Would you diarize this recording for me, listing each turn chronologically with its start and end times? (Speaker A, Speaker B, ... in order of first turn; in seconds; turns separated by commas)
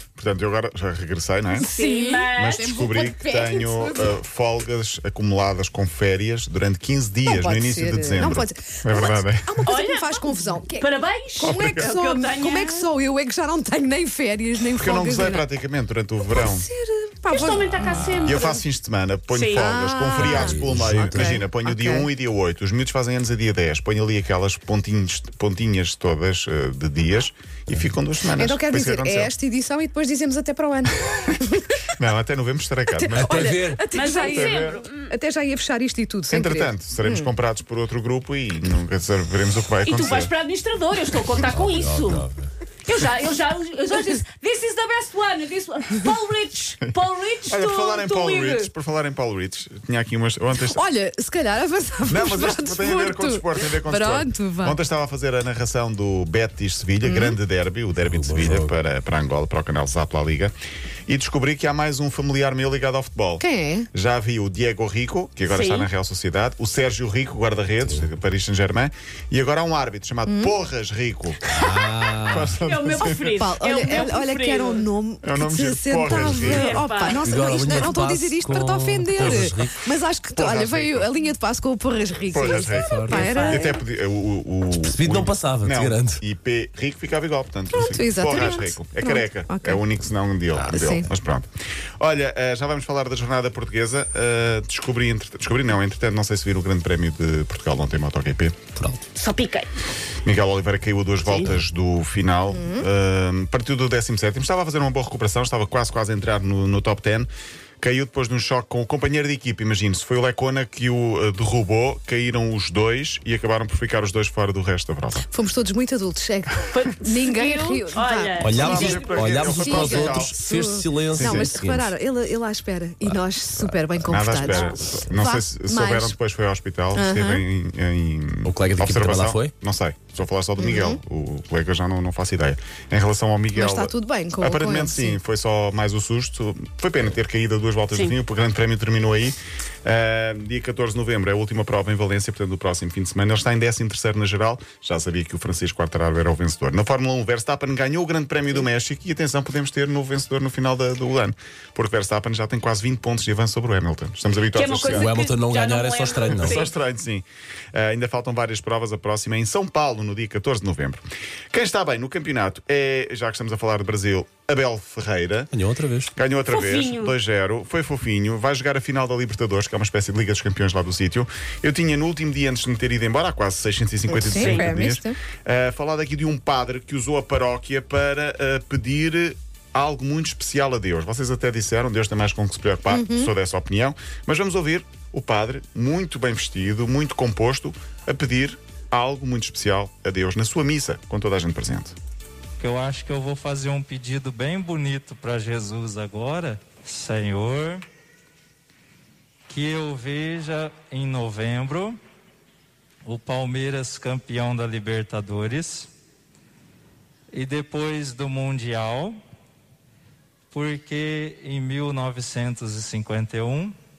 Speaker A: 0.1-1.7, Speaker B: 1.5-4.2, Speaker C: 1.6-2.7, Speaker A: 2.3-9.6, Speaker B: 7.2-15.5, Speaker C: 9.7-12.9, Speaker A: 11.4-11.9, Speaker A: 14.8-16.7, Speaker B: 16.3-18.1, Speaker C: 17.3-18.6, Speaker D: 17.5-18.5, Speaker A: 18.2-29.3, Speaker C: 19.3-20.4, Speaker B: 19.5-22.1, Speaker D: 20.3-21.4, Speaker B: 28.3-31.8, Speaker A: 32.0-34.8, Speaker B: 32.9-37.3, Speaker D: 33.1-33.9, Speaker C: 33.9-35.1, Speaker A: 36.3-40.3, Speaker C: 39.9-42.3, Speaker D: 41.5-42.5, Speaker C: 42.8-48.7, Speaker A: 47.5-50.8, Speaker B: 50.5-54.8, Speaker A: 52.0-60.5, Speaker B: 57.0-57.4, Speaker D: 58.0-58.7, Speaker A: 61.1-71.6, Speaker B: 63.4-63.9, Speaker C: 65.5-65.9, Speaker B: 70.3-70.6, Speaker D: 71.5-72.6, Speaker A: 72.2-73.4, Speaker C: 72.6-74.9, Speaker B: 73.0-83.8, Speaker A: 75.2-76.8, Speaker C: 76.5-77.9, Speaker D: 77.2-79.8, Speaker A: 80.3-81.1, Speaker A: 82.3-98.6, Speaker D: 82.7-83.3, Speaker C: 83.3-83.6, Speaker D: 84.8-86.2, Speaker B: 87.7-89.8, Speaker C: 88.3-88.6, Speaker B: 90.7-91.1, Speaker D: 98.8-99.1, Speaker C: 99.1-99.7, Speaker A: 100.2-107.3, Speaker C: 101.2-101.5, Speaker B: 102.5-102.9, Speaker A: 107.8-115.2, Speaker B: 115.2-126.2, Speaker C: 116.7-119.2, Speaker D: 118.4-121.9, Speaker A: 118.5-120.3, Speaker A: 121.1-121.5, Speaker D: 123.0-125.1, Speaker A: 124.1-155.1, Speaker B: 126.9-127.4, Speaker D: 128.4-129.5, Speaker B: 130.6-131.0, Speaker B: 133.5-135.2, Speaker C: 137.9-138.2, Speaker C: 154.5-156.7, Speaker D: 154.9-156.7, Speaker A: 156.3-165.5, Speaker D: 165.5-166.1, Speaker A: 166.1-191.9, Speaker C: 166.4-167.2, Speaker B: 174.1-175.2, Speaker C: 174.4-174.7, Speaker B: 182.9-183.3, Speaker E: 192.6-197.8, Speaker E: 199.5-202.0, Speaker E: 203.0-205.9, Speaker E: 207.3-209.2, Speaker E: 210.5-213.7